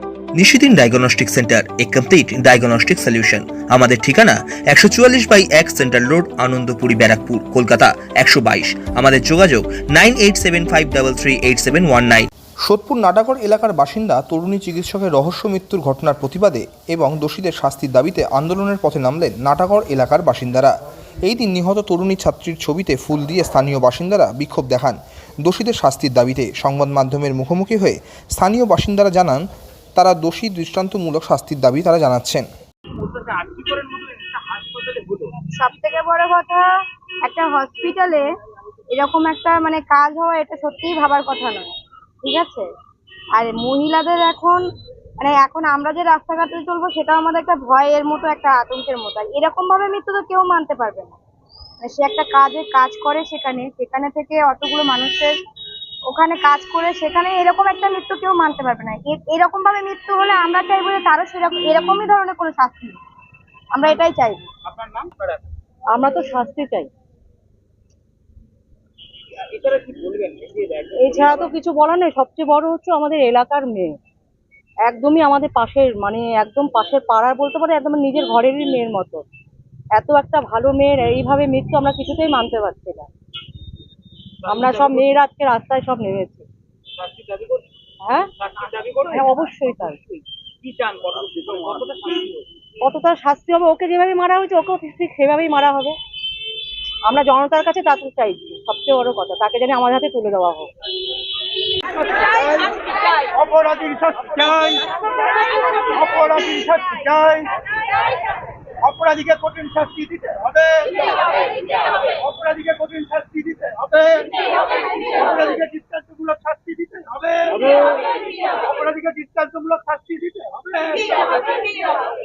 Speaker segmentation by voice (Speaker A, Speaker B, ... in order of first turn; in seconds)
Speaker A: 0.4-4.2, 4.7-11.7, 12.6-20.7, 21.2-29.4, 30.0-32.5
Speaker B: 0.8-12.2
Speaker C: 33.0-35.3, 64.6-65.4, 69.5-71.5, 84.4-85.1, 87.0-87.6, 88.4-92.5, 102.2-102.7, 103.3-104.9, 105.9-107.5, 108.8-111.1, 112.1-117.8, 118.4-121.2
Speaker D: 35.6-36.7, 37.2-38.3, 38.9-41.7, 42.2-42.7, 43.4-44.6, 45.2-51.2, 51.8-55.3, 56.1-63.0, 63.7-64.4
Speaker E: 65.9-66.9, 71.0-74.0, 74.8-79.2, 79.9-83.1, 84.5-86.5, 88.0-88.3, 89.1-90.0, 92.8-96.0, 97.0-100.7